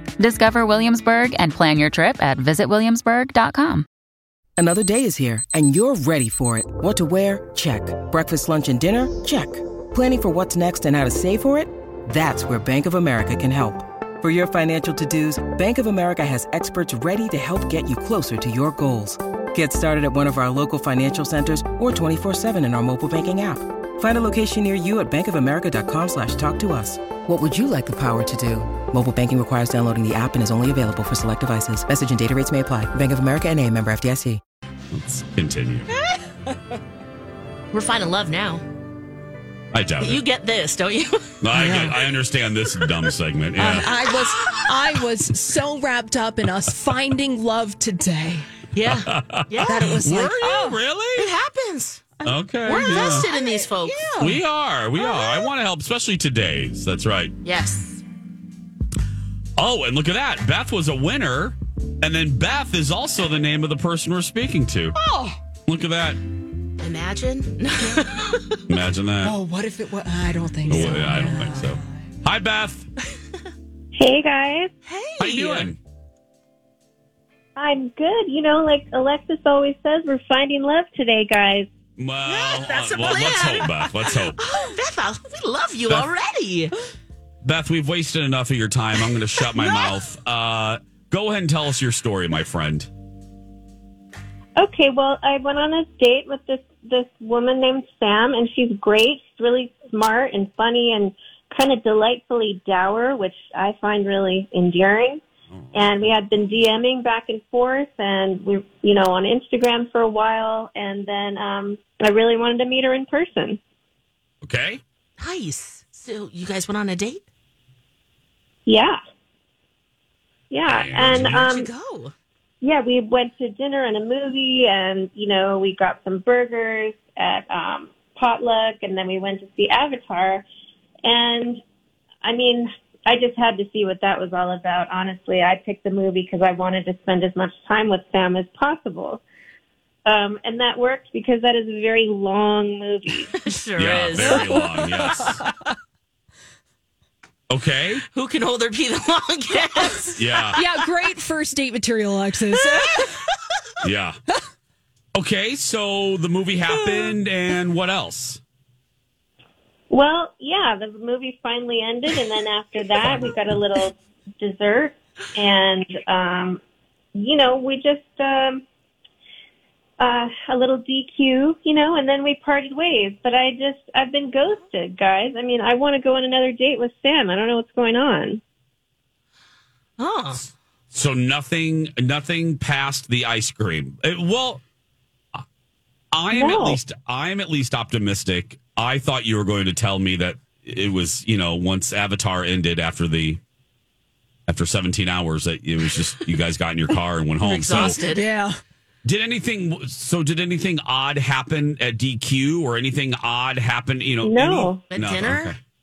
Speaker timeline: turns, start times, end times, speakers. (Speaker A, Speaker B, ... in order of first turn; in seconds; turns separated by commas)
Speaker A: 0.2-3.9, Speaker B: 4.6-34.4, Speaker C: 34.9-35.9, Speaker D: 37.7-38.6, Speaker C: 39.7-40.2, Speaker D: 40.0-41.7, Speaker C: 41.4-43.9, Speaker E: 41.6-42.0, Speaker E: 43.6-48.5, Speaker D: 44.0-45.0, Speaker D: 48.7-49.8, Speaker C: 48.9-51.3, Speaker E: 49.6-50.8, Speaker D: 51.1-54.1, Speaker E: 52.2-54.4, Speaker C: 52.2-53.3, Speaker C: 54.2-57.3, Speaker E: 55.0-55.3, Speaker D: 57.4-58.0, Speaker C: 59.6-65.0, Speaker E: 64.9-65.4, Speaker C: 65.7-66.2, Speaker D: 66.8-68.5, Speaker C: 68.7-69.4, Speaker E: 69.2-72.1, Speaker C: 70.7-72.8, Speaker F: 73.9-74.7, Speaker D: 74.8-75.7, Speaker C: 75.2-75.8, Speaker F: 77.5-81.7, Speaker C: 82.0-84.4, Speaker D: 82.2-86.8, Speaker C: 87.4-92.9, Speaker D: 89.5-89.9, Speaker F: 94.6-105.2, Speaker C: 105.5-106.2, Speaker F: 105.7-113.6, Speaker C: 114.4-114.8, Speaker D: 115.2-117.2, Speaker F: 118.7-119.0, Speaker F: 120.5-121.7, Speaker C: 120.6-121.5, Speaker D: 121.0-122.1, Speaker F: 122.6-130.4, Speaker F: 131.0-131.6, Speaker F: 132.2-139.2, Speaker F: 140.1-143.3, Speaker D: 143.4-144.4, Speaker C: 143.8-145.4, Speaker E: 144.4-145.7, Speaker C: 147.5-148.0, Speaker D: 148.1-150.7, Speaker C: 150.2-150.6, Speaker E: 150.5-153.1, Speaker D: 152.6-153.2, Speaker C: 153.8-154.2, Speaker C: 155.1-158.4, Speaker F: 159.9-166.6, Speaker F: 167.1-168.6, Speaker F: 170.0-178.4, Speaker D: 180.0-180.5, Speaker C: 180.9-184.6, Speaker C: 186.1-193.4, Speaker F: 186.3-186.8, Speaker C: 194.5-198.0, Speaker D: 197.4-198.2, Speaker E: 198.1-198.6, Speaker C: 199.0-205.6, Speaker F: 204.2-204.8, Speaker D: 204.9-205.5